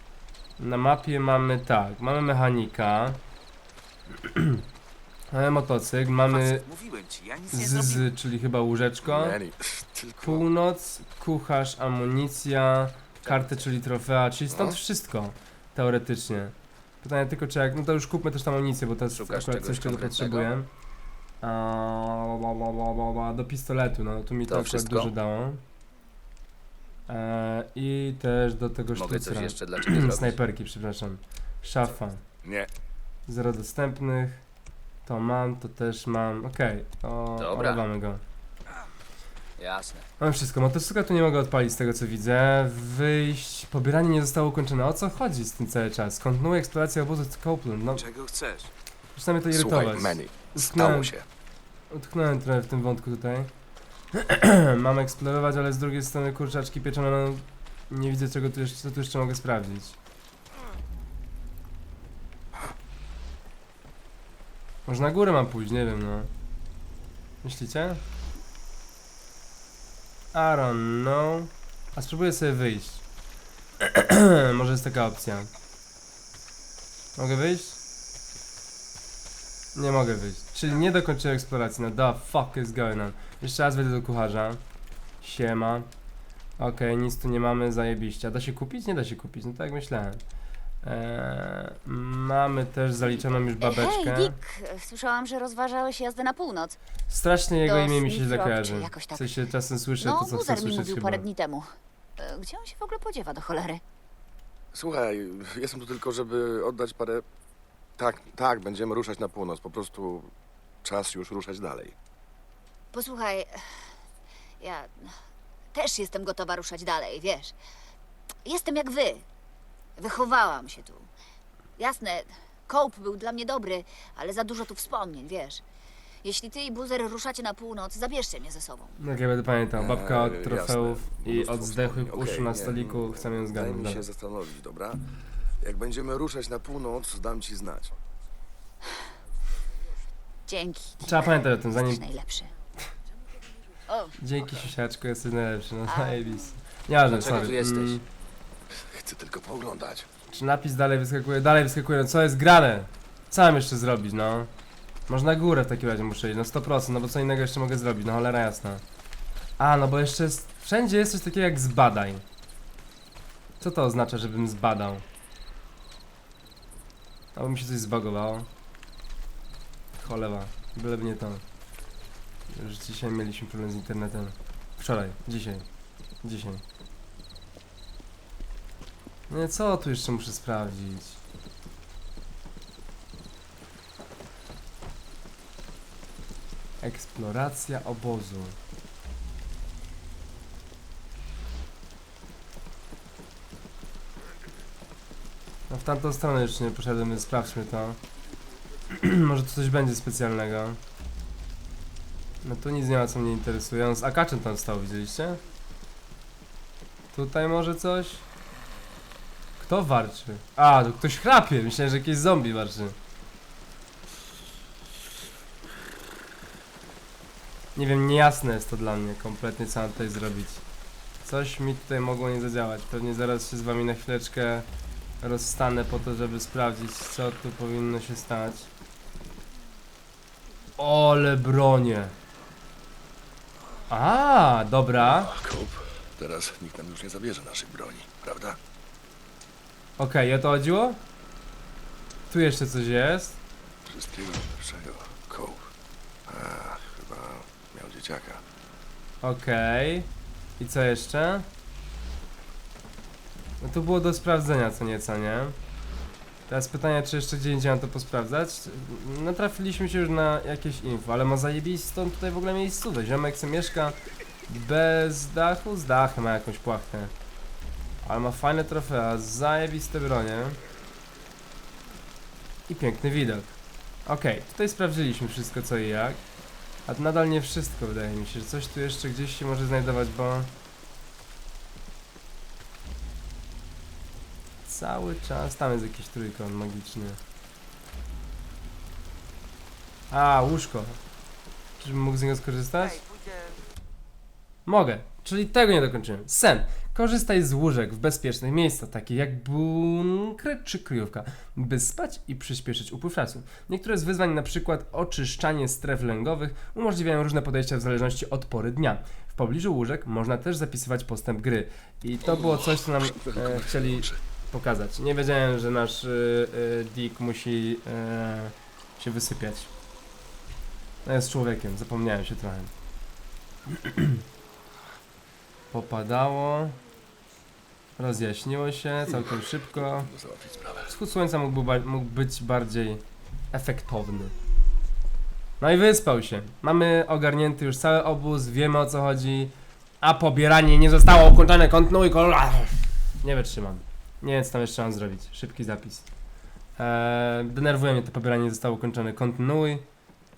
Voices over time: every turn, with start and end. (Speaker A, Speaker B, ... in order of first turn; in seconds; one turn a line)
Speaker A: 0.6-3.2
Speaker A: 4.2-4.6
Speaker A: 5.3-6.7
Speaker B: 6.3-8.1
Speaker A: 7.5-9.4
Speaker C: 9.0-10.5
Speaker A: 10.2-20.7
Speaker D: 13.2-13.6
Speaker C: 14.5-14.8
Speaker D: 19.1-20.5
Speaker A: 21.4-25.6
Speaker D: 24.5-25.1
Speaker A: 27.1-32.2
Speaker D: 28.9-30.4
Speaker C: 32.4-32.7
Speaker A: 33.3-34.4
Speaker A: 35.0-38.2
Speaker D: 37.4-37.8
Speaker D: 39.6-40.1
Speaker A: 40.2-48.0
Speaker B: 48.0-48.7
Speaker A: 49.1-51.1
Speaker C: 49.5-51.2
Speaker A: 51.9-53.5
Speaker A: 54.1-60.0
Speaker A: 64.8-66.3
Speaker A: 67.4-68.0
Speaker A: 70.3-73.0
Speaker A: 73.8-75.5
Speaker A: 77.2-77.8
Speaker A: 79.7-84.6
Speaker A: 85.2-85.9
Speaker A: 86.6-90.2
Speaker A: 90.8-94.4
Speaker E: 93.6-96.8
Speaker A: 97.1-101.3
Speaker E: 97.6-99.3
Speaker E: 100.0-103.8
Speaker C: 104.7-107.2
Speaker C: 108.0-110.3
Speaker C: 110.8-111.9
Speaker E: 112.9-113.8
Speaker E: 114.6-115.2
Speaker E: 115.7-117.5
Speaker E: 118.4-119.2
Speaker E: 120.0-121.1
Speaker E: 121.8-125.6
Speaker E: 126.2-129.0
Speaker A: 129.0-134.0
Speaker C: 129.8-137.9
Speaker E: 140.5-142.5
Speaker A: 141.0-142.0
Speaker E: 143.9-144.2
Speaker A: 144.2-148.0
Speaker E: 145.9-146.6
Speaker D: 147.1-148.0
Speaker C: 148.7-150.1
Speaker A: 150.3-154.5
Speaker A: 155.1-158.8
Speaker A: 159.6-162.2
Speaker A: 163.6-165.0
Speaker A: 167.3-168.5
Speaker A: 170.0-171.4
Speaker A: 172.5-175.6
Speaker A: 176.2-176.6
Speaker A: 179.3-181.2
Speaker A: 186.8-188.6
Speaker A: 195.7-198.0
Speaker A: 198.9-200.8
Speaker A: 202.4-205.4
Speaker A: 207.1-208.2
Speaker A: 209.6-212.9
Speaker A: 217.8-220.6
Speaker A: 221.2-224.7
Speaker A: 225.2-228.7
Speaker A: 230.8-232.1
Speaker A: 233.9-235.3
Speaker C: 235.0-238.6
Speaker A: 240.0-241.0
Speaker A: 242.3-243.4
Speaker C: 243.8-245.7
Speaker C: 246.3-248.4
Speaker A: 249.2-251.5
Speaker A: 253.6-255.6
Speaker A: 256.5-263.9
Speaker A: 264.5-267.1
Speaker A: 268.0-270.6
Speaker A: 272.7-276.2
Speaker A: 276.9-280.5
Speaker A: 284.6-287.2
Speaker A: 290.1-291.0
Speaker A: 291.8-293.0
Speaker A: 294.6-319.7
Speaker C: 312.2-314.2
Speaker A: 321.0-322.7
Speaker A: 323.7-324.2
Speaker A: 325.7-326.8
Speaker A: 328.0-330.1
Speaker C: 329.7-330.9
Speaker A: 330.9-334.3
Speaker A: 335.6-346.0
Speaker A: 346.8-349.8